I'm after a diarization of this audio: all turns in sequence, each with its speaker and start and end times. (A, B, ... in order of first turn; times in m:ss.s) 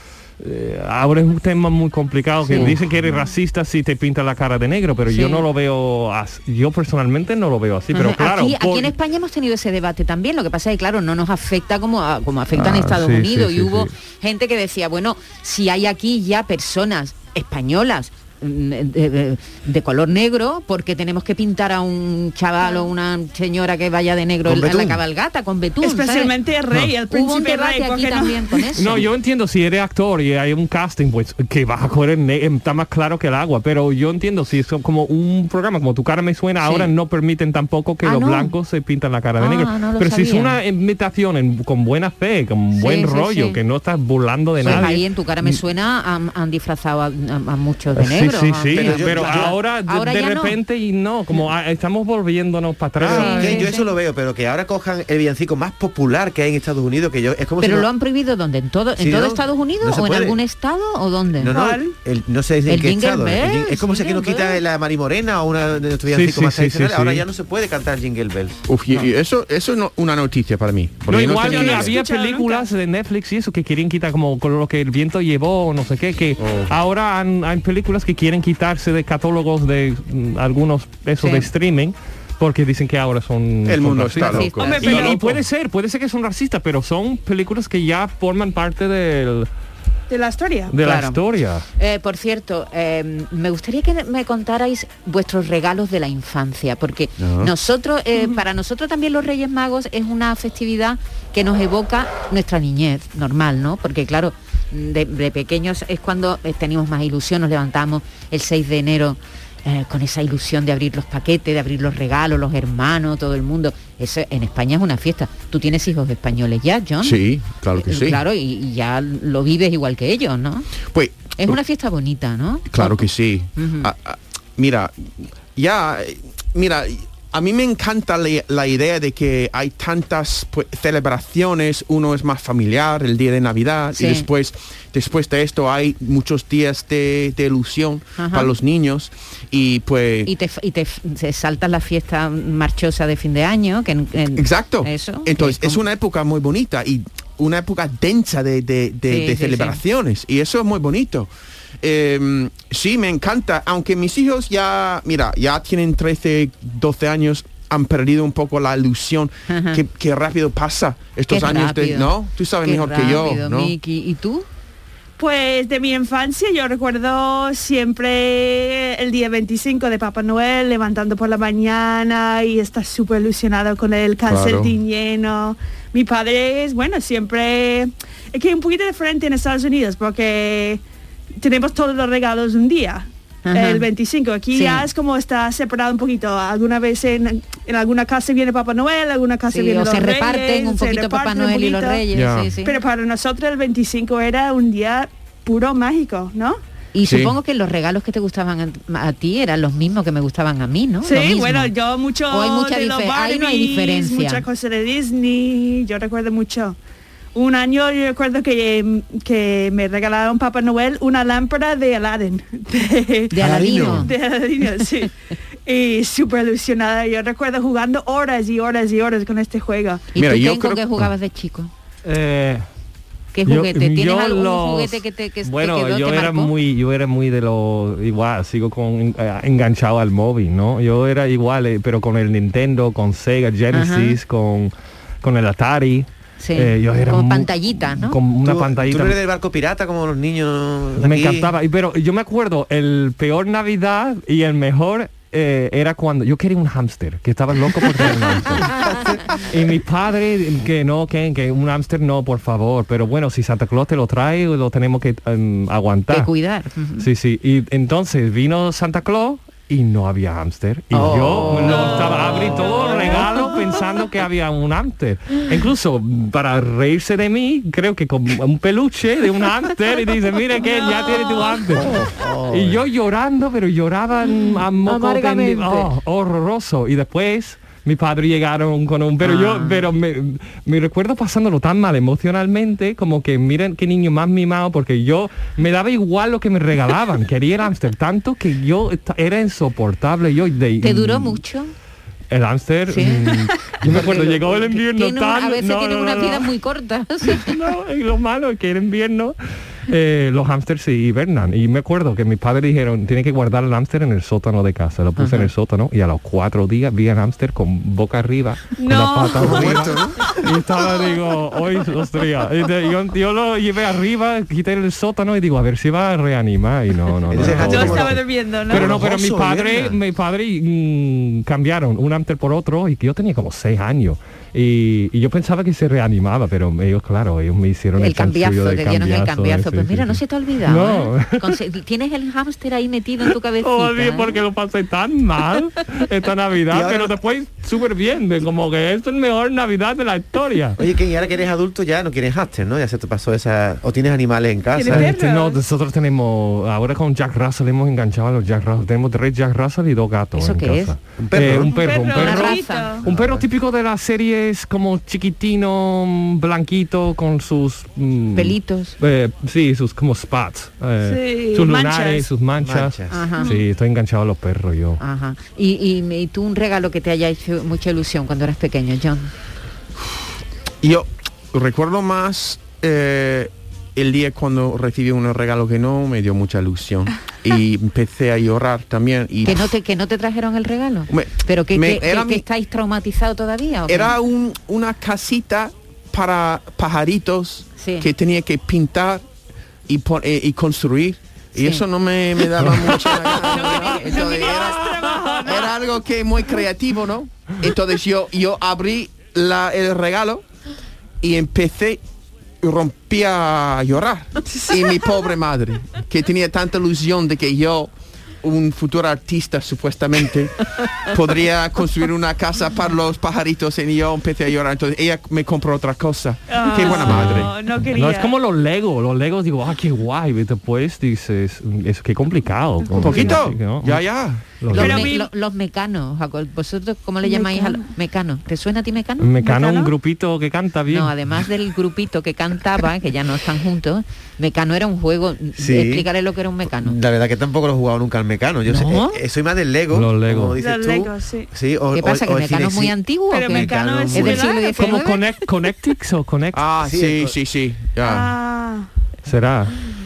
0:00.4-0:08.9 A
0:02.5-0:02.8 B
0:05.1-0:05.4 B
0:07.9-0:26.3 B
0:12.5-0:13.9 A
0:24.4-0:25.0 C
0:25.8-0:28.6 D
0:27.1-0:29.1 B
0:28.7-0:45.6 A
0:36.6-0:36.9 B
0:38.0-0:38.5 B
0:39.4-0:40.6 B
0:42.7-0:43.6 B
0:44.6-0:50.5 B
0:48.0-0:53.6 A
0:48.7-0:49.6 C
0:53.0-0:57.9 C
0:53.1-0:53.9 B
0:57.6-1:01.5 B
0:59.0-1:00.4 C
1:01.4-1:08.6 C
1:01.5-1:01.9 D
1:02.7-1:04.6 B
1:06.1-1:07.2 A
1:08.7-1:12.0 E
1:11.1-1:29.5 A
1:11.3-1:12.7 D
1:16.4-1:16.7 E
1:21.2-1:21.5 B
1:23.6-1:25.4 E
1:24.2-1:25.1 B
1:24.6-1:25.2 D
1:30.1-1:30.7 D
1:30.7-1:31.6 A
1:30.8-1:31.2 B
1:31.8-1:57.2 B
1:37.2-1:37.5 E
1:57.0-1:58.2 E
1:57.7-2:00.7 B
2:00.9-2:01.6 E
2:01.4-2:03.0 B
2:02.7-2:20.3 E
2:03.5-2:03.9 B
2:13.9-2:14.3 B
2:18.2-2:18.5 B
2:20.2-2:25.8 B
2:24.4-2:31.3 E
2:29.1-2:29.8 B
2:31.8-2:43.7 E
2:39.5-2:39.8 B
2:41.3-2:44.4 B
2:45.2-3:00.8 D
2:54.2-2:54.8 E
3:01.4-3:12.0 D
3:03.4-3:03.9 B
3:04.5-3:04.9 B
3:09.5-3:12.8 B
3:12.1-3:12.5 E
3:12.6-3:16.6 D
3:16.9-3:21.7 B
3:17.0-3:17.4 E
3:21.0-3:26.8 D
3:22.3-3:24.4 B
3:27.3-3:35.1 D
3:33.3-3:34.1 B
3:33.4-3:33.9 E
3:35.6-3:40.0 D
3:40.1-3:41.7 B
3:40.2-3:41.1 E
3:42.0-3:42.6 A
3:43.3-3:46.5 B
3:43.4-3:59.2 A
3:53.7-3:54.2 B
3:56.4-3:58.2 B
3:58.4-4:01.5 C
4:01.0-4:08.9 A
4:09.5-4:16.3 A
4:16.1-4:17.1 B
4:17.0-4:51.4 A
4:20.9-4:23.2 B
4:30.7-4:31.6 D
4:32.1-4:32.6 C
4:34.8-4:35.9 B
4:39.2-4:39.8 B
4:50.8-4:51.7 B
4:52.3-4:56.5 A
4:52.9-4:57.5 B
4:57.2-4:59.4 A
4:59.9-5:31.6 A
5:05.2-5:05.5 B
5:08.8-5:10.4 D
5:09.4-5:10.3 C
5:17.3-5:20.0 C
5:17.4-5:17.8 E
5:17.6-5:19.0 D
5:28.0-5:34.4 B
5:33.6-5:40.8 A
5:36.7-5:37.1 C
5:40.8-5:45.1 C
5:44.7-5:45.6 D
5:44.9-6:05.0 A
5:50.4-5:50.9 B
5:51.2-5:51.8 C
5:51.6-5:53.0 D
5:52.1-5:53.0 B
5:53.0-5:53.4 C
5:58.3-5:59.0 B
6:01.0-6:02.3 D
6:02.6-6:03.3 C
6:03.1-6:03.5 B
6:05.0-6:09.3 B
6:10.8-6:19.7 E
6:19.4-6:24.1 B
6:21.1-6:22.4 E
6:23.9-6:29.2 E
6:27.8-6:28.1 B
6:29.9-6:40.4 E
6:31.5-6:31.8 B
6:33.3-6:34.2 B
6:33.4-6:35.7 D
6:34.6-6:35.4 A
6:41.2-6:42.0 E
6:42.6-6:57.5 E
6:56.5-6:58.3 D
6:57.0-7:05.1 A
7:03.0-7:03.4 D
7:03.0-7:04.8 E
7:04.7-7:09.5 B
7:04.7-7:05.3 D
7:07.2-7:07.8 D
7:09.2-7:11.1 A
7:09.4-7:09.9 D
7:10.9-7:17.0 B
7:15.6-7:16.1 C
7:16.7-7:24.5 C
7:18.7-7:19.2 B
7:19.9-7:20.6 A
7:20.6-7:21.5 D
7:21.9-7:25.2 B
7:23.3-7:25.0 D
7:24.8-7:26.6 A
7:26.5-7:28.4 E
7:26.8-7:27.3 C
7:28.0-7:28.9 D
7:29.2-7:29.8 A